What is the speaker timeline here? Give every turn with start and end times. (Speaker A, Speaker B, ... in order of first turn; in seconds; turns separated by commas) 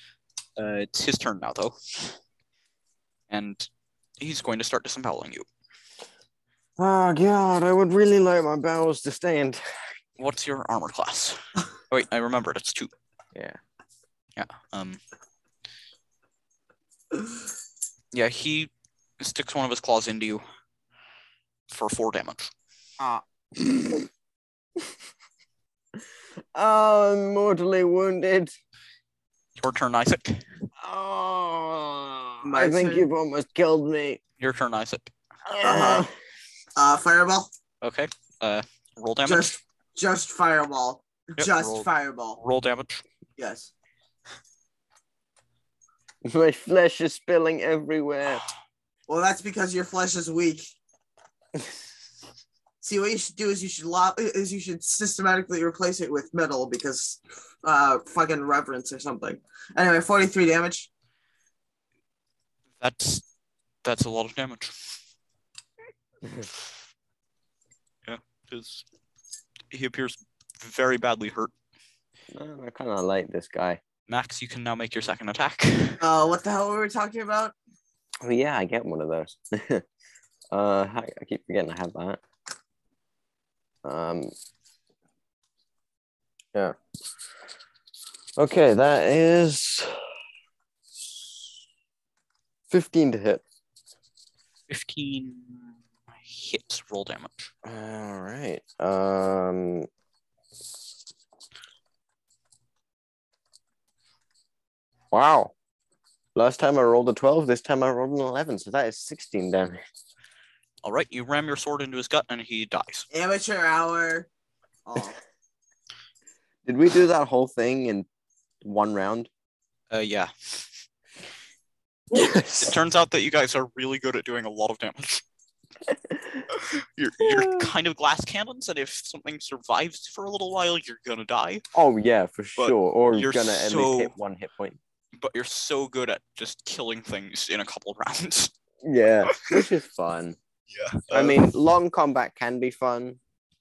Speaker A: 0.6-2.1, Speaker A: 3.3-3.7, Speaker A: 4.2-5.5, Speaker B: 6.8-9.6, Speaker A: 10.2-12.9, Speaker A: 14.3-15.0, Speaker A: 18.1-20.4, Speaker A: 21.7-22.5, Speaker B: 23.0-24.1, Speaker B: 26.5-28.5, Speaker A: 29.6-30.4, Speaker B: 30.8-34.2, Speaker C: 32.4-33.1, Speaker A: 34.4-35.1, Speaker B: 35.5-36.1, Speaker C: 35.6-36.1, Speaker C: 36.8-37.5, Speaker A: 37.8-39.6, Speaker C: 39.2-42.4, Speaker A: 41.4-43.0, Speaker C: 43.4-43.7, Speaker B: 46.2-48.5, Speaker C: 49.1-50.7, Speaker C: 52.8-60.9, Speaker A: 62.8-63.2, Speaker A: 63.8-64.7, Speaker A: 68.0-68.8, Speaker A: 69.7-71.5, Speaker B: 72.3-73.8, Speaker A: 74.1-76.0, Speaker C: 76.0-77.5, Speaker B: 78.2-79.8, Speaker B: 80.5-82.2, Speaker B: 83.8-84.3, Speaker B: 88.4-89.9, Speaker B: 92.7-93.4, Speaker A: 94.7-97.5, Speaker B: 97.6-99.9, Speaker B: 105.1-105.5, Speaker B: 106.3-109.8, Speaker A: 110.8-113.0, Speaker C: 113.1-114.3, Speaker C: 114.8-115.2, Speaker B: 116.7-118.0, Speaker B: 118.6-119.3, Speaker A: 119.9-120.6, Speaker B: 122.1-122.8, Speaker A: 122.6-125.2, Speaker A: 126.5-131.6, Speaker B: 127.2-127.7, Speaker B: 131.7-134.8, Speaker A: 132.6-134.1, Speaker A: 135.2-138.5, Speaker B: 138.8-140.4, Speaker A: 139.3-139.6, Speaker A: 140.7-141.5, Speaker B: 141.1-143.2